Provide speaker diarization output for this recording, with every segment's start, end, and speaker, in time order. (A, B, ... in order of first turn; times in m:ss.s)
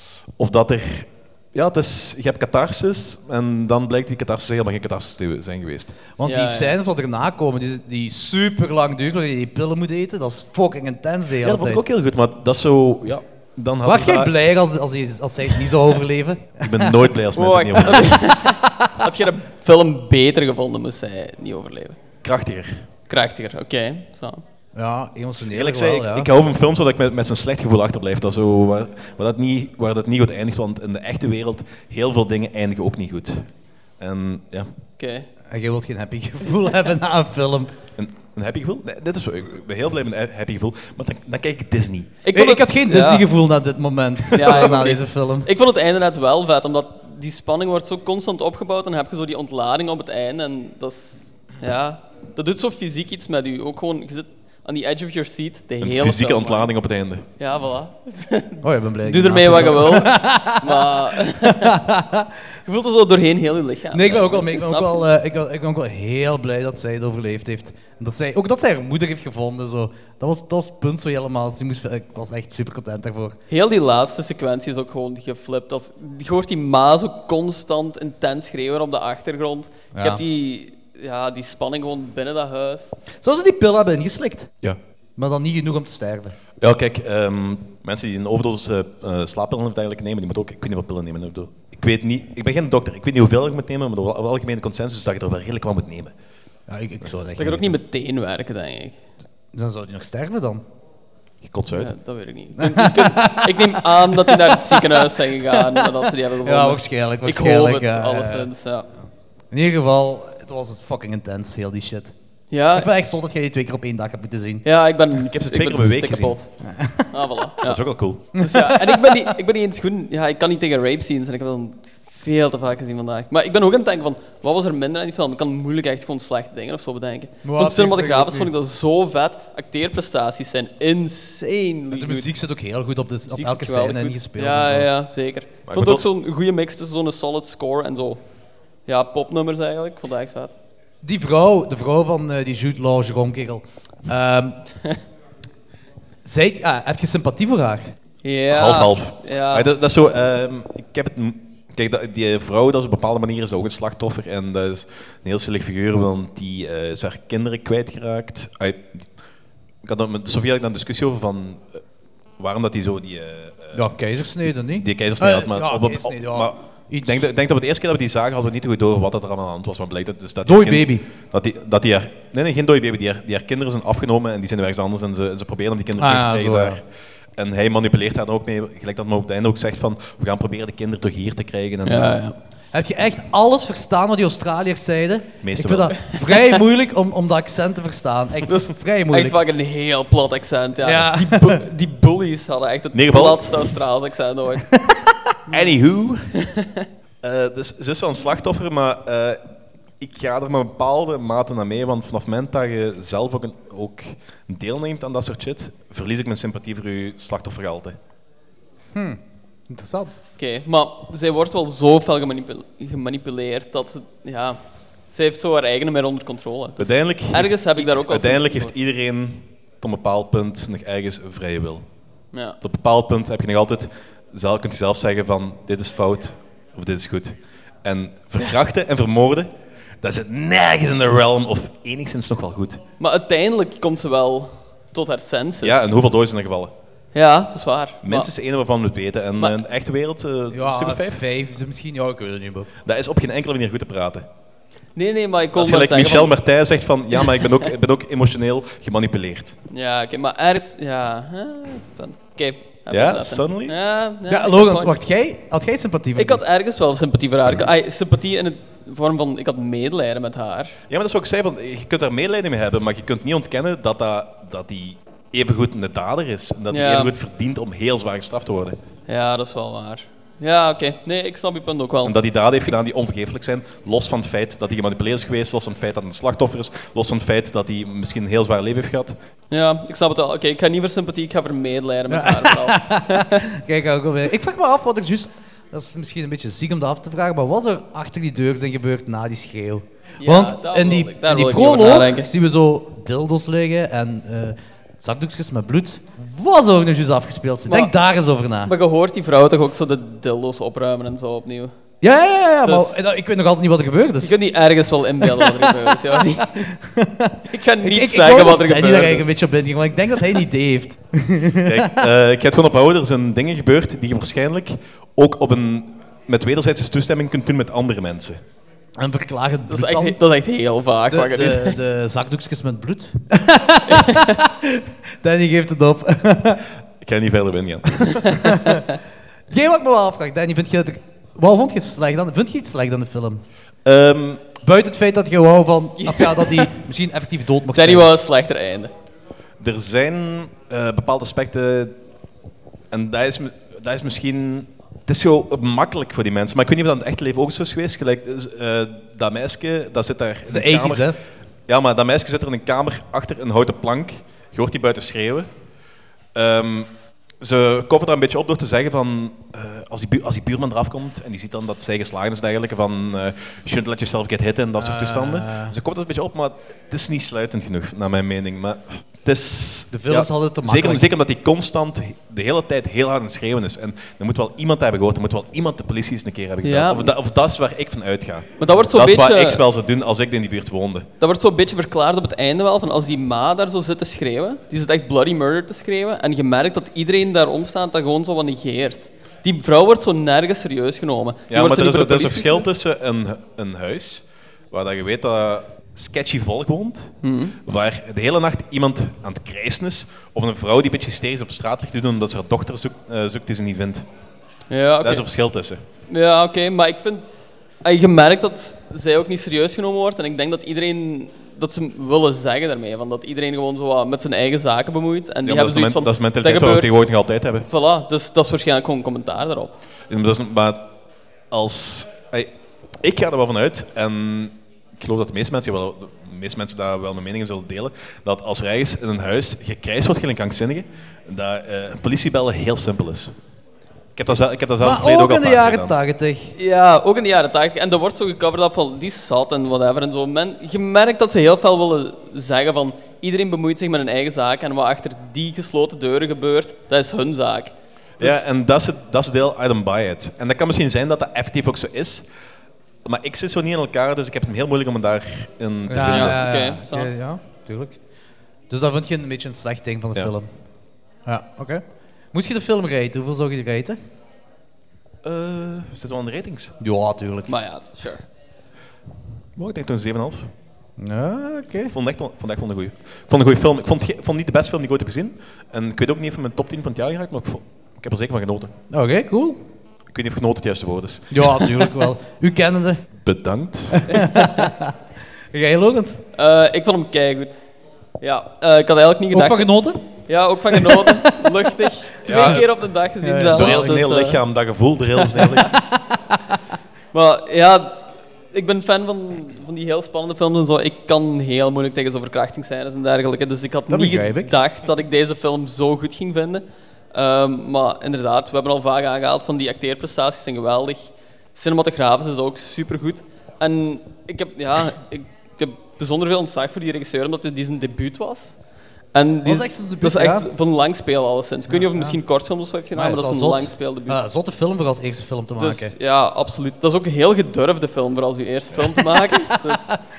0:00.4-0:05.9 A
0:06.2-0:11.8 B
0:06.2-0:06.8 C
0:11.4-0:14.3 A
0:13.8-0:17.0 B
0:16.6-0:18.3 A
0:17.3-0:22.0 C
0:18.4-0:19.0 B
0:22.2-0:22.8 A
0:23.1-0:24.4 C
0:24.7-0:26.3 B
0:25.5-0:34.7 A
0:35.0-0:35.3 C
0:35.5-0:37.7 B
0:38.0-0:42.1 A
0:42.2-0:43.2 C
0:42.3-0:45.5 B
0:44.3-0:56.7 C
0:55.8-0:57.2 A
0:57.4-1:01.8 C
0:58.6-1:02.3 B
1:02.6-1:05.1 C
1:03.9-1:13.4 B
1:13.5-1:23.0 C
1:19.9-1:20.2 B
1:23.2-1:24.5 B
1:25.2-1:26.4 B
1:26.6-1:36.1 A
1:36.7-1:37.7 B
1:37.4-1:39.0 C
1:39.5-1:40.6 B
1:41.4-1:41.9 A
1:41.7-1:48.9 C
1:42.6-1:45.9 B
1:46.4-1:48.5 B
1:49.5-1:52.1 B
1:52.5-1:52.9 C
1:52.7-1:54.6 B
1:54.6-2:12.3 C
1:55.3-1:56.4 A
1:56.6-1:57.1 B
1:57.6-1:58.3 A
1:58.4-1:59.3 B
2:07.4-2:08.5 B
2:11.9-2:14.9 B
2:13.3-2:18.2 C
2:15.6-2:16.1 A
2:18.9-2:20.5 C
2:21.0-2:24.6 B
2:26.2-2:27.9 B
2:28.2-2:29.7 C
2:28.5-2:39.1 A
2:39.8-2:41.8 A
2:42.4-2:43.8 A
2:43.7-2:47.2 B
2:44.7-2:56.8 A
2:50.4-2:51.0 B
2:56.0-2:56.8 B
2:57.4-3:02.2 A
3:01.8-3:02.4 C
3:02.7-3:09.4 B
3:05.4-3:06.0 A
3:06.1-3:06.6 C
3:08.5-3:14.7 C
3:10.8-3:11.6 B
3:12.9-3:13.6 A
3:14.7-3:15.1 B
3:15.5-3:15.8 C
3:15.5-3:16.3 A
3:16.3-3:16.7 C
3:17.2-3:19.4 A
3:20.0-3:28.0 A
3:28.9-3:30.2 B
3:30.4-3:34.6 C
3:35.1-3:38.7 C
3:36.8-3:41.8 A
3:42.6-3:49.5 A
3:50.0-3:52.8 A
3:53.0-3:55.9 C
3:55.6-3:56.7 A
3:57.1-3:58.3 C
3:58.0-4:01.2 A
4:00.5-4:02.7 B
4:02.8-4:04.2 A
4:05.0-4:06.4 C
4:05.6-4:09.5 A
4:09.7-4:15.0 C
4:12.9-4:13.8 A
4:14.3-4:16.4 B
4:16.2-4:20.8 C
4:20.9-4:28.8 A
4:26.7-4:27.1 C
4:29.1-4:32.2 C
4:32.0-4:39.1 A
4:39.5-4:43.4 C
4:42.1-4:58.7 B
4:50.2-4:52.3 C
4:58.6-5:01.7 C
5:02.0-5:04.3 B
5:02.6-5:03.0 C
5:04.2-5:06.7 C
5:05.2-5:05.9 B
5:06.7-5:12.0 B
5:07.5-5:09.3 C
5:11.6-5:18.4 A
5:19.0-5:20.2 B
5:19.7-5:21.8 C
5:21.1-5:26.6 B
5:23.9-5:24.3 C
5:27.0-5:28.4 A
5:28.4-5:28.8 B
5:29.5-5:33.4 B
5:33.8-5:34.4 A
5:34.6-5:38.1 B
5:36.0-5:36.7 C
5:37.8-5:38.9 C
5:39.6-5:41.9 A
5:42.9-5:51.2 A
5:50.4-5:51.2 B
5:51.7-5:55.5 A
5:56.3-6:21.1 A
6:04.8-6:05.7 B
6:09.9-6:11.0 B
6:16.6-6:17.1 C
6:18.6-6:19.6 C
6:21.2-6:32.7 C
6:31.5-6:37.1 A
6:37.2-6:37.6 C
6:37.6-6:44.0 A
6:44.7-6:45.2 C
6:45.0-6:45.8 A
6:46.1-6:57.1 C
6:55.4-6:57.7 A
6:57.7-6:59.7 C
7:00.1-7:00.9 A
7:01.5-7:13.3 A
7:14.2-7:15.9 A
7:14.8-7:16.6 B
7:16.6-7:28.4 C
7:28.2-7:32.3 A
7:33.0-7:36.4 A
7:35.9-7:38.0 B
7:36.0-7:37.1 C
7:38.7-7:40.5 B
7:41.2-7:44.0 B
7:45.2-7:46.7 A
7:46.8-7:47.5 B
7:47.5-7:48.2 C
7:49.6-7:50.5 A
7:51.0-7:51.9 B
7:51.9-7:58.7 A
7:58.9-7:59.6 B
8:00.1-8:01.9 A
8:01.3-8:03.0 B
8:03.2-8:04.2 A
8:03.9-8:04.9 B
8:04.1-8:04.7 C
8:05.5-8:06.2 B
8:06.3-8:07.6 C
8:08.2-8:14.4 C
8:09.3-8:10.0 B
8:10.7-8:11.5 B
8:12.2-8:12.6 B
8:12.2-8:12.7 A
8:13.2-8:14.1 B
8:13.5-8:15.7 A
8:15.2-8:15.5 C
8:15.6-8:16.6 B
8:17.1-8:38.6 C
8:23.9-8:24.5 B
8:39.1-8:44.2 C
8:39.4-8:40.4 B
8:41.7-8:42.2 B
8:42.9-8:45.9 B
8:45.6-8:50.0 C
8:49.1-8:50.0 B